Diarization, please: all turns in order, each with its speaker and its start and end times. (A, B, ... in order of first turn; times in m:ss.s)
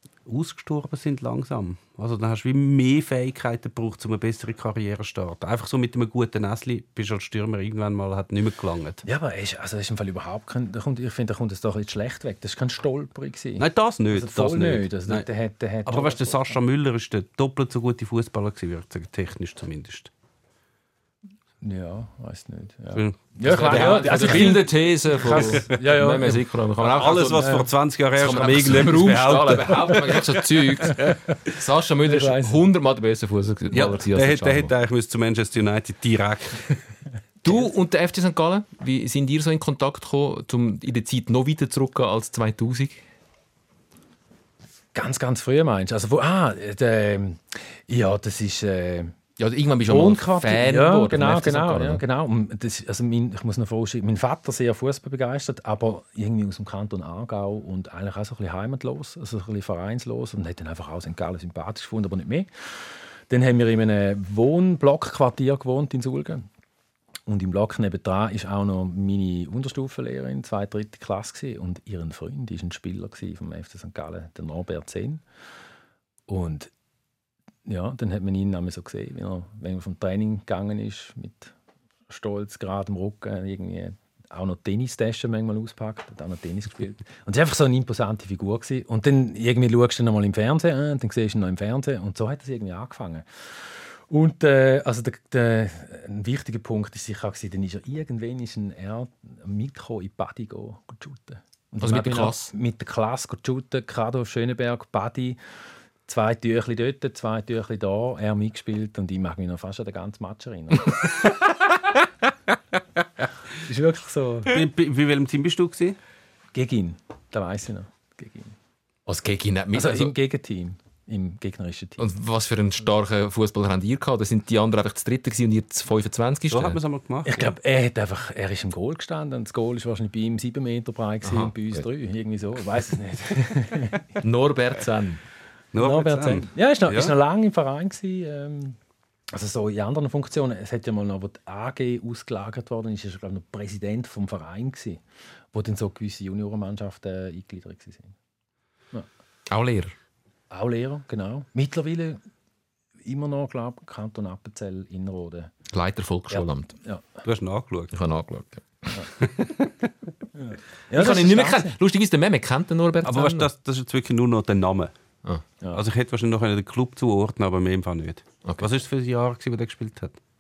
0:00.2-0:09.0 A
0:09.0-0:16.6 B
0:13.6-0:15.3 A
0:15.9-0:20.1 A
0:21.6-0:27.7 B
0:22.9-0:24.6 A
0:23.4-0:27.5 C
0:25.3-0:25.7 A
0:26.8-0:30.3 A
0:28.2-0:34.7 C
0:30.9-0:31.2 B
0:32.1-0:32.6 B
0:33.7-0:36.8 A
0:37.4-0:43.0 C
0:45.0-0:49.1 B
0:49.4-0:52.0 C
0:49.9-1:06.5 B
1:07.3-1:15.2 B
1:16.3-1:16.7 B
1:17.7-1:21.5 B
1:22.1-1:45.4 B
1:41.8-1:42.5 C
1:46.1-1:51.2 B
1:53.6-1:54.6 B
1:54.5-1:56.0 A
1:56.5-1:58.5 B
1:59.1-2:00.1 C
1:59.7-2:02.0 B
2:02.0-2:06.8 C
2:06.5-2:07.4 A
2:07.3-2:14.0 B
2:11.2-2:11.8 C
2:14.2-2:15.2 C
2:15.7-2:17.1 A
2:15.8-2:18.8 B
2:19.3-2:25.0 B
2:25.5-2:28.1 B
2:29.5-2:30.0 C
2:30.5-2:32.2 B
2:33.0-2:35.5 B
2:35.7-2:36.8 C
2:36.3-2:37.0 B
2:37.2-2:37.9 A
2:37.9-2:39.1 C
2:39.2-2:39.9 A
2:40.4-2:41.8 B
2:40.9-2:43.5 C
2:43.0-2:44.9 A
2:45.7-2:50.2 A